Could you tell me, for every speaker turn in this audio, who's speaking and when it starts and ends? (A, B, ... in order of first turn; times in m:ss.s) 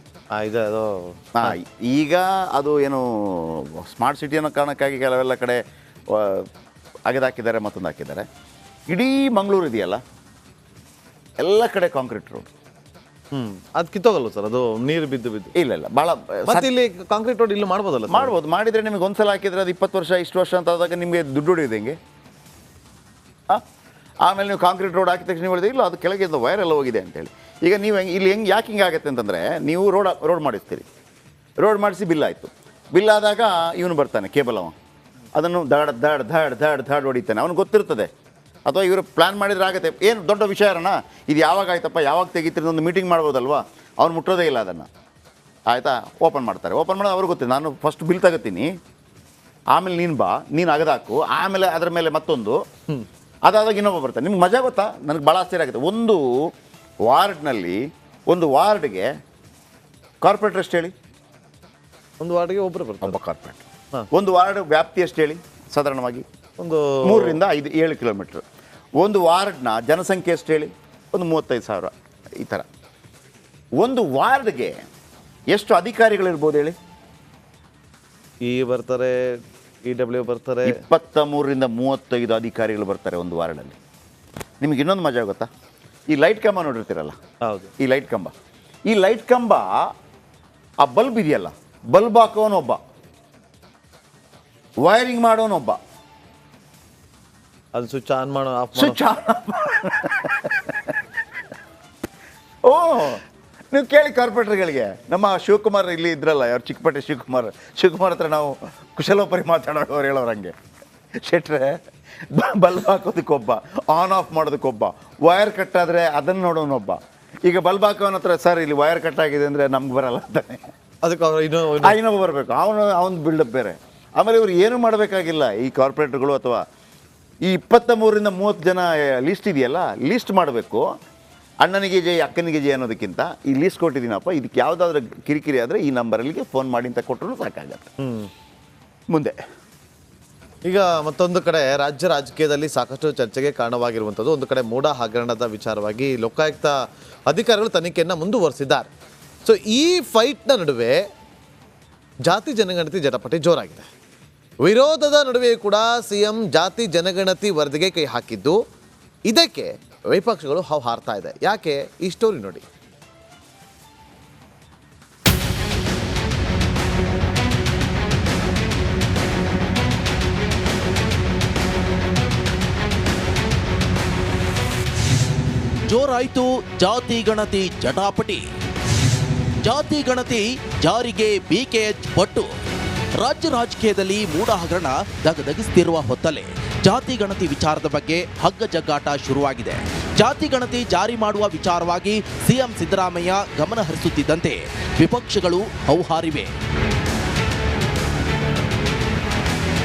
0:00.3-0:01.6 A
0:01.4-0:05.6 B
0:06.1-0:06.4 B
0:07.1-0:08.2 B
0:08.9-0:10.0 B
0:11.4-0:12.5 B
0:13.3-0:15.5 A
0:15.5-0:16.7 B
0:16.5-0:18.3 A
0:18.1-0:22.0 B
0:24.2-0:30.8 B
0:31.6-0:34.7 B
0:35.3-0:38.1 B
0:38.7-0:44.9 B
0:45.7-0:48.7 B
0:49.7-0:52.6 B
0:53.4-0:56.3 B
0:57.0-0:59.1 B
1:00.2-1:00.9 B
1:02.2-1:03.2 A
1:03.0-1:06.2 B
1:06.6-1:07.4 A
1:07.0-1:08.4 B
1:09.0-1:12.6 B
1:13.8-1:14.8 B
1:15.5-1:16.7 B
1:18.4-1:20.8 A
1:20.6-1:23.8 B
1:24.6-1:25.5 B
1:26.1-1:27.1 B
1:27.4-1:27.7 A
1:27.8-1:28.3 B
1:28.9-1:29.8 B
1:30.8-1:32.8 B
1:34.8-1:35.8 B
1:37.7-1:39.0 A
1:38.8-1:40.8 B
1:42.7-1:43.2 B
1:43.7-1:50.5 B
1:51.2-1:51.8 B
1:52.3-2:00.6 B
2:01.0-2:02.0 A
2:01.8-2:06.6 B
2:07.4-2:10.8 B
2:11.6-2:17.9 B
2:18.0-2:18.3 A
2:19.1-2:19.4 B
2:20.6-2:28.9 A
2:29.4-2:31.0 A
2:32.2-2:33.9 A
2:34.6-2:38.6 A
2:39.3-2:42.6 A
2:55.9-2:58.4 C
2:59.6-3:02.5 C
3:03.2-3:16.5 C